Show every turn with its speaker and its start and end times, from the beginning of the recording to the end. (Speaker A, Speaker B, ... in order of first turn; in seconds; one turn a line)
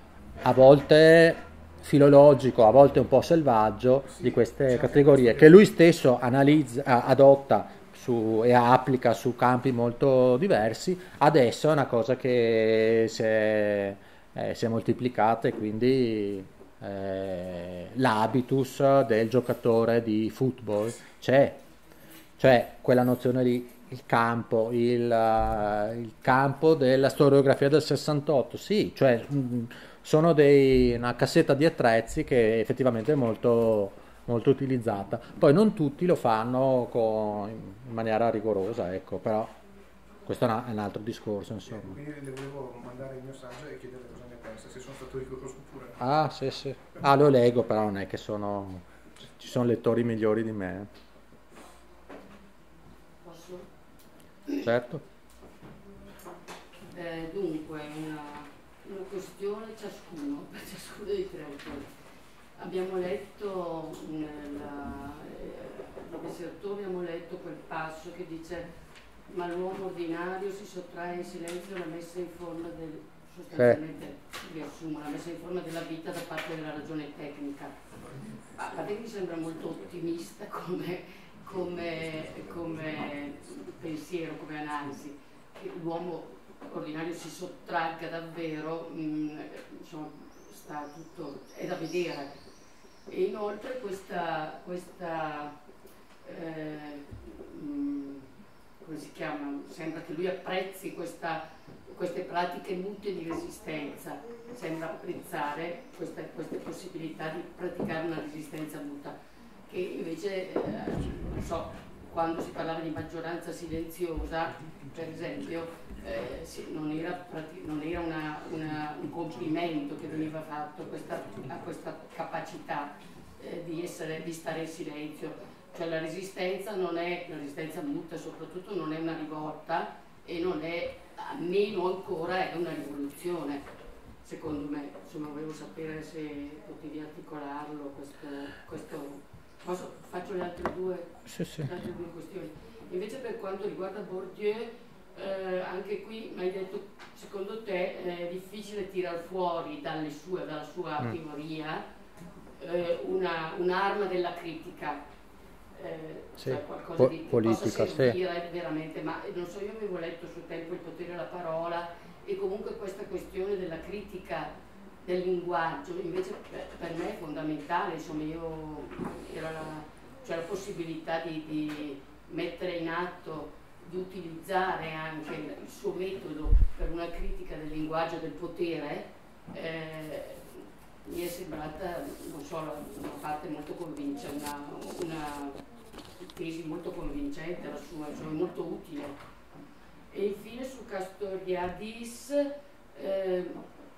Speaker A: 0.4-21.6
Speaker B: 4.2-5.5
Speaker A: 22.4-39.5
Speaker A: 40.2-42.0
Speaker B: 41.7-46.0
Speaker A: 46.0-50.9
Speaker C: 53.2-53.7
Speaker A: 54.6-55.0
Speaker C: 56.9-61.9
Speaker C: 62.6-68.7
Speaker C: 69.3-77.8
Speaker A: 73.5-73.8
Speaker C: 78.5-92.3
Speaker B: 82.3-83.0
Speaker C: 93.1-95.5
Speaker C: 96.2-98.3
Speaker C: 98.8-109.2
Speaker C: 109.7-133.6
Speaker C: 134.2-151.8
Speaker A: 141.2-141.7
Speaker C: 152.6-155.0
Speaker C: 155.7-185.6
Speaker A: 156.4-158.2
Speaker C: 186.2-189.2
Speaker C: 190.1-193.6